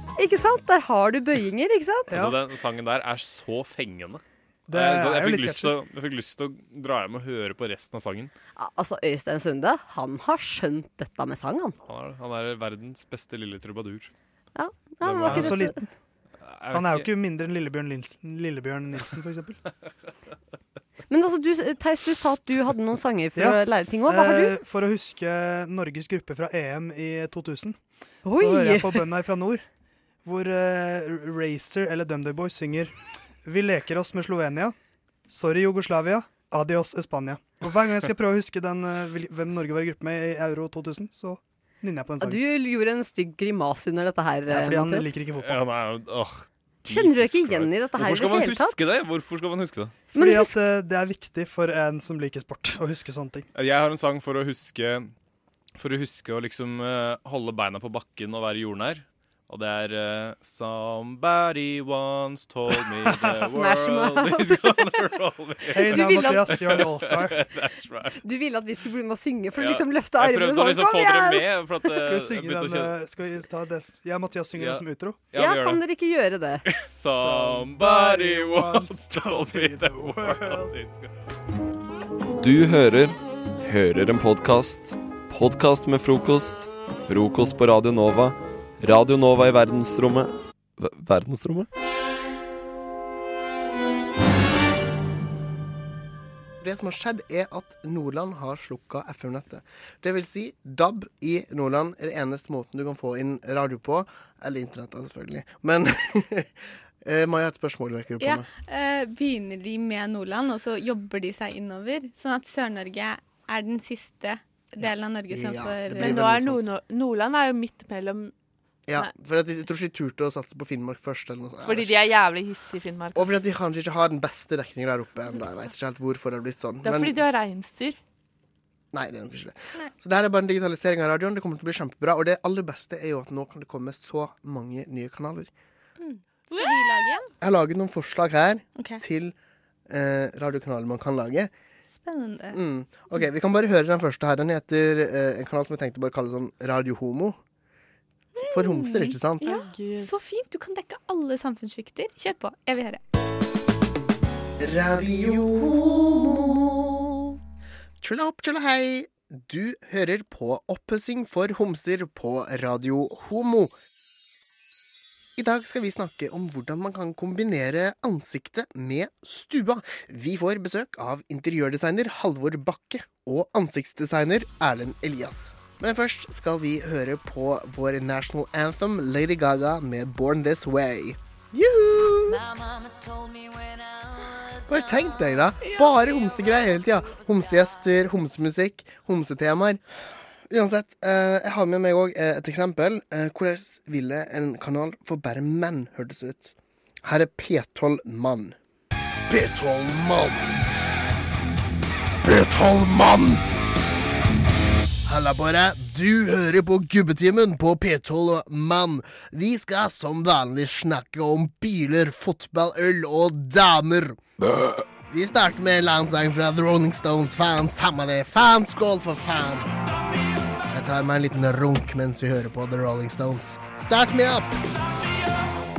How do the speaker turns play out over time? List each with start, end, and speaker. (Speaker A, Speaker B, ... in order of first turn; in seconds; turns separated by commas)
Speaker A: 0.2-2.2, Speaker B: 2.1-8.3, Speaker C: 2.1-2.4, Speaker C: 4.7-5.7, Speaker A: 8.6-11.8, Speaker B: 11.9-14.1, Speaker A: 14.6-15.8, Speaker B: 15.0-15.7, Speaker C: 15.2-15.9, Speaker B: 16.4-17.1, Speaker C: 16.7-19.6, Speaker A: 21.1-24.6, Speaker C: 23.4-29.6, Speaker A: 28.2-29.1, Speaker C: 30.2-32.9, Speaker C: 33.5-34.8, Speaker C: 35.3-42.4, Speaker A: 42.2-45.1, Speaker C: 44.5-45.6, Speaker B: 45.4-49.9, Speaker A: 46.9-48.8, Speaker A: 50.1-50.6, Speaker C: 50.1-53.5, Speaker B: 53.5-55.1, Speaker B: 55.8-68.2, Speaker C: 63.0-63.5, Speaker A: 63.5-65.1, Speaker C: 65.7-67.4, Speaker A: 65.7-66.8, Speaker A: 68.2-71.9, Speaker B: 69.5-73.4, Speaker C: 72.0-75.2, Speaker B: 74.6-75.8, Speaker A: 75.3-76.7, Speaker B: 76.7-81.1, Speaker C: 76.9-80.7, Speaker D: 82.4-91.7, Speaker E: 96.6-108.5, Speaker F: 108.2-116.2, Speaker E: 115.3-116.7, Speaker G: 116.0-118.3, Speaker E: 118.9-121.9, Speaker G: 121.6-123.4, Speaker E: 123.2-127.2, Speaker G: 126.8-128.0, Speaker E: 128.9-135.5, Speaker F: 136.0-137.3, Speaker E: 137.4-139.3, Speaker F: 138.8-139.0, Speaker E: 139.9-141.5, Speaker F: 141.9-142.6, Speaker E: 142.5-147.4, Speaker F: 148.3-153.0, Speaker E: 148.5-149.5, Speaker G: 149.4-150.1, Speaker E: 154.6-157.4, Speaker E: 158.0-163.7, Speaker E: 165.4-182.4, Speaker E: 184.7-189.8, Speaker E: 190.5-198.6, Speaker E: 199.3-200.5, Speaker E: 202.2-203.4, Speaker E: 205.1-214.2, Speaker E: 215.1-219.7, Speaker E: 220.7-224.6